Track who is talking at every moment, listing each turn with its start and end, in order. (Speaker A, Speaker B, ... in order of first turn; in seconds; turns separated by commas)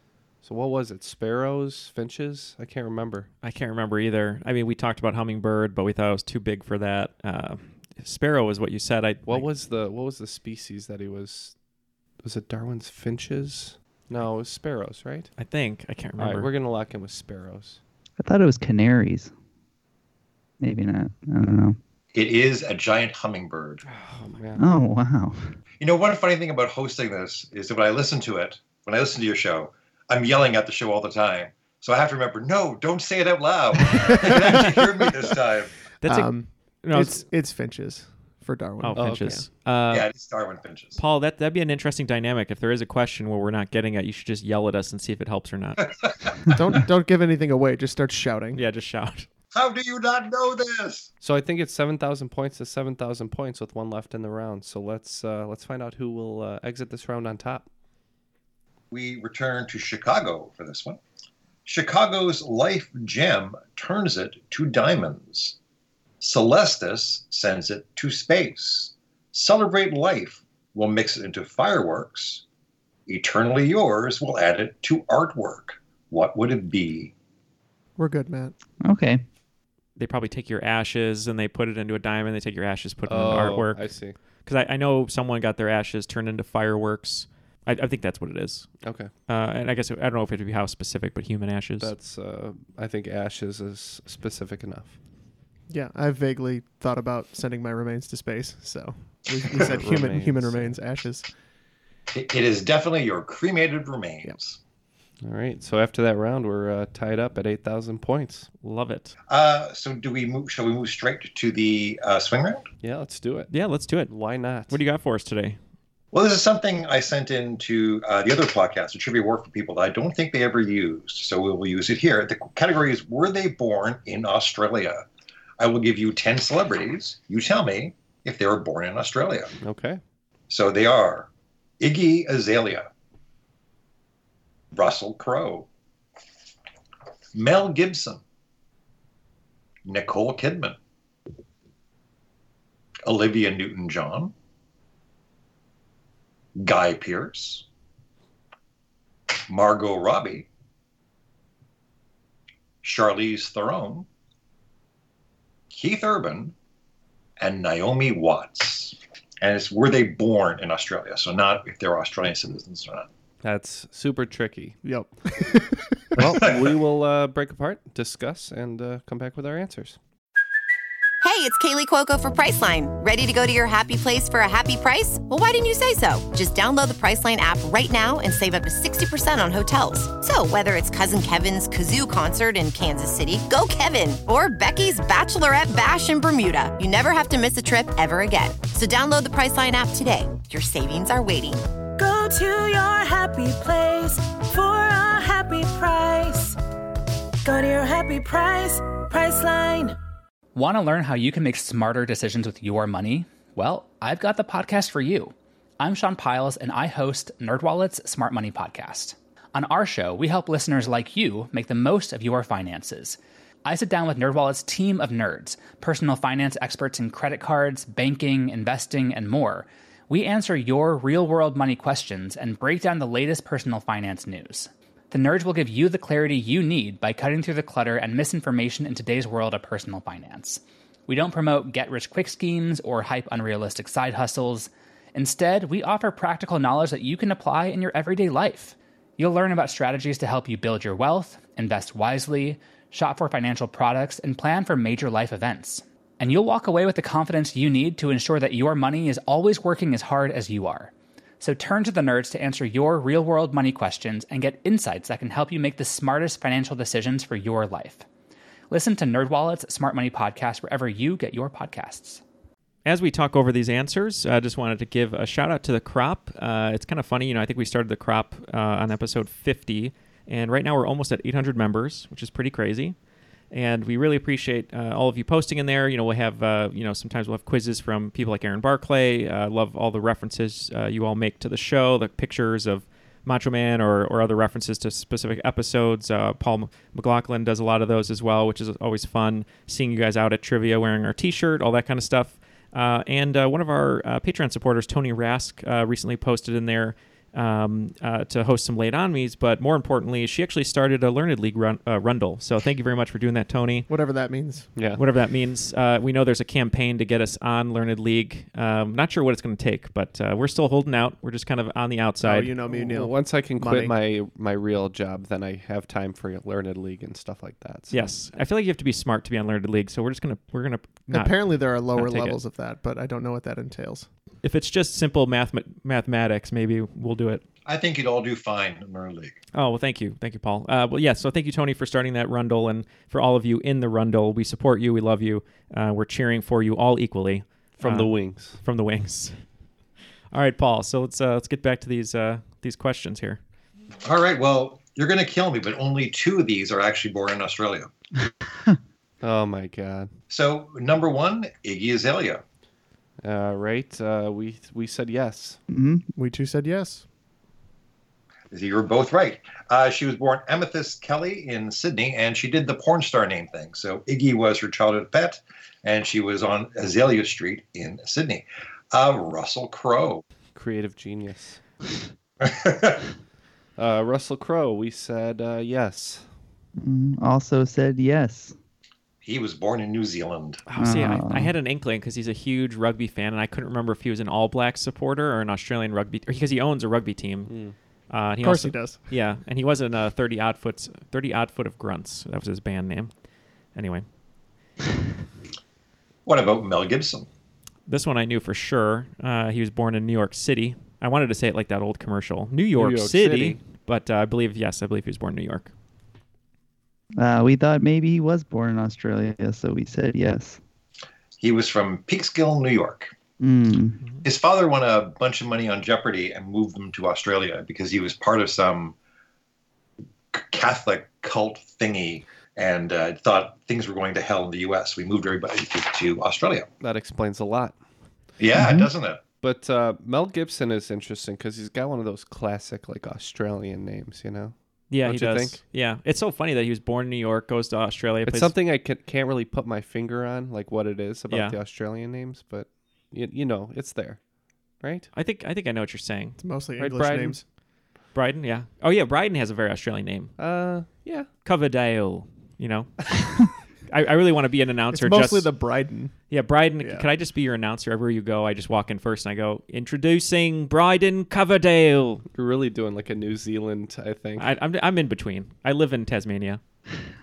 Speaker A: 0.4-3.3, Speaker B: 3.4-9.5, Speaker A: 9.3-11.5, Speaker A: 12.2-15.3, Speaker B: 15.4-16.5, Speaker A: 16.2-17.8, Speaker C: 18.2-19.3, Speaker C: 20.6-21.8, Speaker D: 22.1-23.8, Speaker A: 24.0-24.6, Speaker C: 24.6-25.5, Speaker D: 25.8-35.8, Speaker E: 33.9-35.1, Speaker B: 36.0-36.3, Speaker E: 36.0-39.4, Speaker B: 36.8-37.2, Speaker B: 38.8-40.1, Speaker A: 38.9-39.4, Speaker D: 39.9-41.0, Speaker B: 41.0-45.9, Speaker D: 45.8-46.3, Speaker E: 46.5-48.6, Speaker B: 48.5-49.3, Speaker D: 49.5-51.1, Speaker A: 51.2-57.6, Speaker D: 58.9-61.0, Speaker D: 61.6-65.6, Speaker D: 66.2-72.4, Speaker D: 73.1-77.1, Speaker E: 78.0-78.5, Speaker C: 78.8-79.2, Speaker B: 80.0-83.9, Speaker A: 83.1-84.2, Speaker B: 84.5-88.7, Speaker A: 88.8-89.1, Speaker B: 89.3-91.9, Speaker A: 91.8-95.0, Speaker E: 95.7-101.3, Speaker A: 99.6-100.8, Speaker D: 102.1-104.6, Speaker A: 105.2-108.5, Speaker B: 108.6-109.1, Speaker D: 109.3-112.7, Speaker A: 112.8-113.5, Speaker B: 113.5-114.2, Speaker A: 114.1-114.8, Speaker B: 114.7-115.6, Speaker D: 116.1-125.0, Speaker D: 125.6-129.5, Speaker A: 129.6-130.0, Speaker D: 130.5-131.3, Speaker D: 131.8-132.9, Speaker D: 134.7-135.7, Speaker D: 137.3-138.2, Speaker D: 139.8-140.8, Speaker D: 143.1-144.3, Speaker D: 146.6-147.7, Speaker D: 149.5-150.5, Speaker D: 152.8-154.1, Speaker D: 155.7-156.5, Speaker D: 157.4-163.1, Speaker A: 163.4-164.8, Speaker E: 164.8-166.1, Speaker A: 166.2-170.0, Speaker D: 166.2-166.7, Speaker F: 171.2-191.6, Speaker G: 192.0-196.6, Speaker G: 197.4-200.0, Speaker H: 200.6-258.1, Speaker H: 258.7-262.2, Speaker B: 262.9-273.0, Speaker B: 273.5-303.9, Speaker E: 303.9-304.7, Speaker A: 304.8-305.0, Speaker B: 304.9-312.5, Speaker E: 312.2-314.0, Speaker A: 312.7-318.0, Speaker B: 317.9-322.4, Speaker E: 321.1-324.1, Speaker B: 324.4-327.4, Speaker D: 327.6-329.4, Speaker B: 329.5-339.4, Speaker A: 337.8-338.6, Speaker B: 340.3-343.4, Speaker D: 344.0-347.9, Speaker A: 349.2-350.1, Speaker D: 350.3-352.4, Speaker A: 353.2-355.6, Speaker C: 355.7-356.1, Speaker E: 356.1-357.1, Speaker D: 358.5-370.2, Speaker A: 370.6-371.6, Speaker D: 372.4-373.0, Speaker A: 373.8-376.3, Speaker C: 376.8-378.6, Speaker D: 379.2-380.6, Speaker B: 380.6-387.6, Speaker C: 380.8-381.5, Speaker A: 387.5-387.8, Speaker B: 388.1-393.1, Speaker E: 388.4-389.0, Speaker B: 393.7-394.1, Speaker D: 396.2-397.3, Speaker B: 397.9-405.7, Speaker A: 402.8-403.6, Speaker C: 407.2-410.6, Speaker D: 411.4-413.1, Speaker C: 413.4-414.0, Speaker D: 414.2-418.9, Speaker D: 420.3-426.7, Speaker A: 426.8-427.8, Speaker D: 428.4-429.2, Speaker C: 428.6-428.9, Speaker A: 429.4-435.6, Speaker B: 434.9-438.5, Speaker A: 438.2-444.2, Speaker B: 441.3-441.6, Speaker A: 444.8-445.1, Speaker B: 445.1-446.4, Speaker E: 446.4-447.4, Speaker A: 446.8-447.4, Speaker B: 448.1-450.4, Speaker A: 450.4-451.3, Speaker B: 451.4-453.4, Speaker B: 453.9-455.5, Speaker E: 454.9-456.1, Speaker B: 456.3-462.2, Speaker E: 456.8-457.1, Speaker A: 462.4-464.6, Speaker B: 464.4-466.6